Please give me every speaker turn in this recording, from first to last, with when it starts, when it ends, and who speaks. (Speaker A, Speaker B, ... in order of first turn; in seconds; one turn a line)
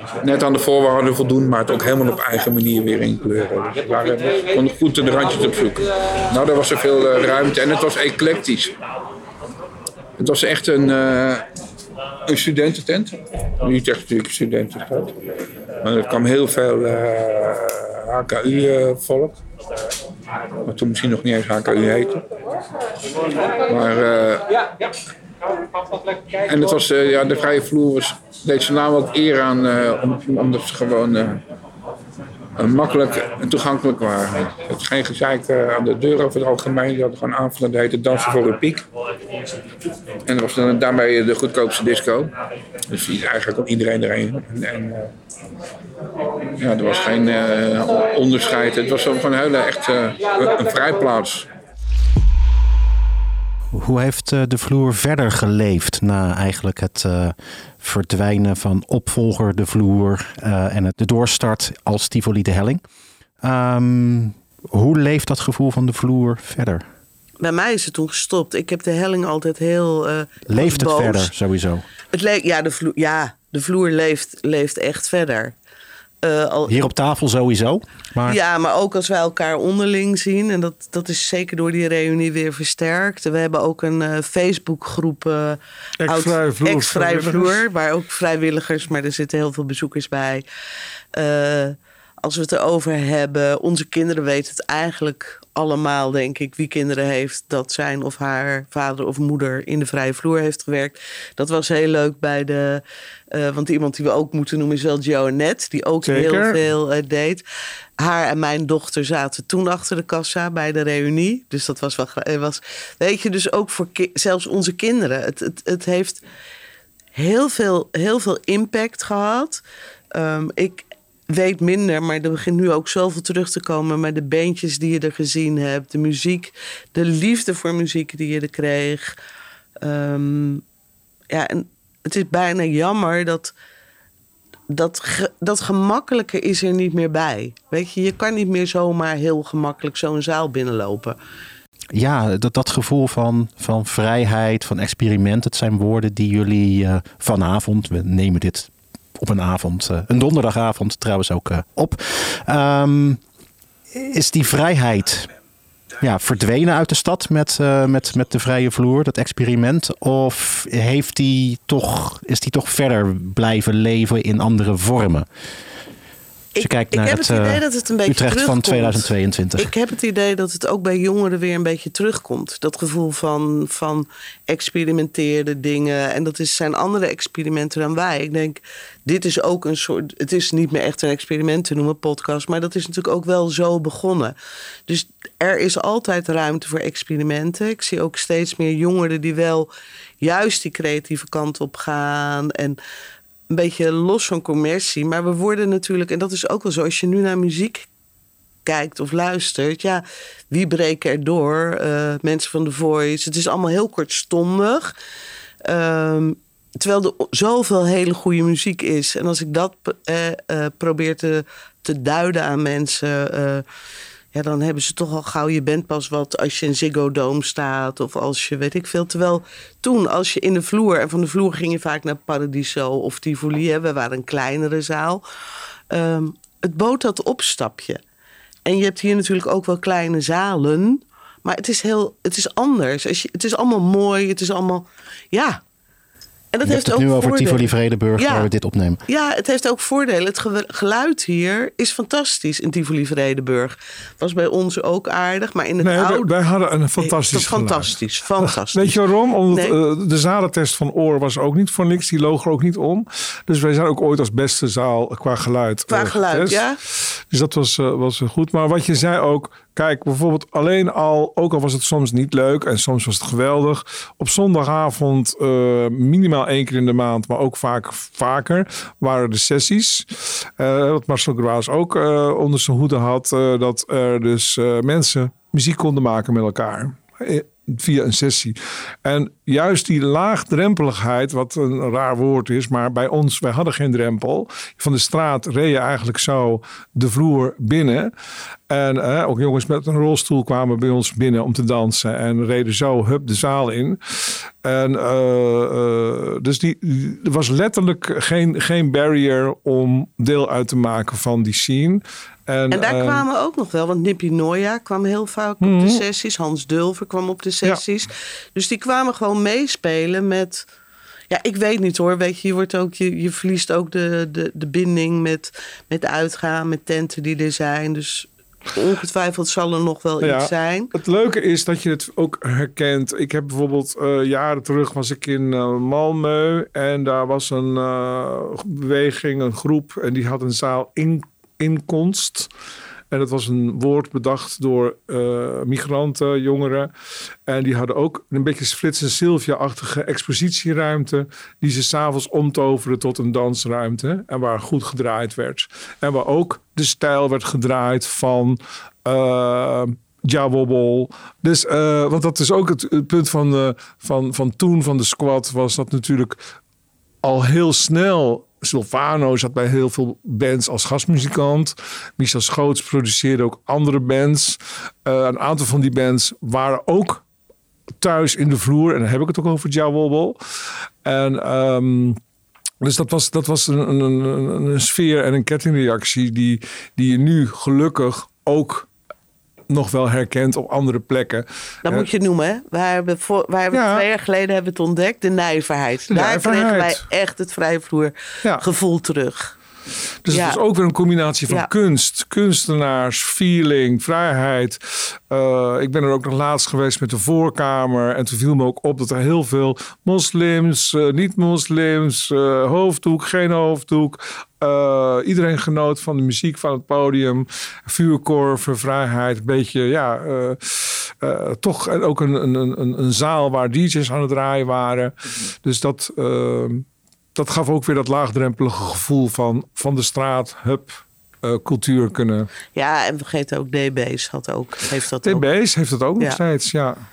Speaker A: 0.2-8.8
Speaker A: 10.2-11.4
Speaker A: 12.3-15.2
Speaker A: 15.8-19.4
Speaker A: 20.6-22.3
Speaker A: 23.7-24.5
Speaker A: 26.4-31.4
Speaker A: 32.6-38.8
Speaker A: 40.3-42.3
Speaker A: 42.9-45.1
Speaker A: 46.6-51.5
Speaker B: 53.7-62.8
Speaker B: 63.4-66.8
Speaker C: 67.4-71.3
Speaker B: 70.5-71.8
Speaker C: 72.1-75.5
Speaker C: 76.2-76.8
Speaker B: 76.7-78.4
Speaker C: 78.3-90.4
Speaker D: 86.0-87.6
Speaker C: 91.1-107.4
Speaker D: 106.0-106.6
Speaker C: 108.0-116.2
Speaker C: 117.2-119.6
Speaker C: 120.1-129.2
Speaker C: 129.8-130.6
Speaker C: 131.3-133.5
Speaker C: 134.7-141.2
Speaker B: 141.9-153.2
Speaker B: 153.9-155.3
Speaker B: 156.0-165.3
Speaker C: 166.6-184.4
Speaker B: 166.6-169.7
Speaker C: 184.9-189.7
Speaker C: 190.2-192.8
Speaker C: 193.5-197.9
Speaker C: 198.7-204.9
Speaker C: 205.7-213.6
Speaker C: 214.3-225.2
Speaker C: 225.9-228.0
Speaker C: 228.7-235.6
Speaker C: 236.5-238.5
Speaker B: 236.6-239.0
Speaker C: 239.1-246.3
Speaker D: 245.8-248.0
Speaker C: 247.0-249.0
Speaker D: 248.7-288.1
Speaker C: 249.5-249.8
Speaker C: 255.9-256.8
Speaker D: 288.7-294.0
Speaker D: 294.6-303.2
Speaker C: 302.7-310.6
Speaker D: 305.6-306.0
Speaker C: 311.3-320.9
Speaker D: 320.2-332.5
Speaker D: 333.1-336.9
Speaker D: 337.5-356.4
Speaker D: 357.2-367.2
Speaker D: 368.0-370.4
Speaker D: 371.0-372.2
Speaker D: 372.8-378.9
Speaker D: 379.7-382.1
Speaker C: 381.9-389.5
Speaker D: 383.7-384.1
Speaker D: 386.1-387.0
Speaker D: 390.3-422.5
Speaker C: 390.3-390.6
Speaker C: 422.7-425.4
Speaker D: 425.2-427.0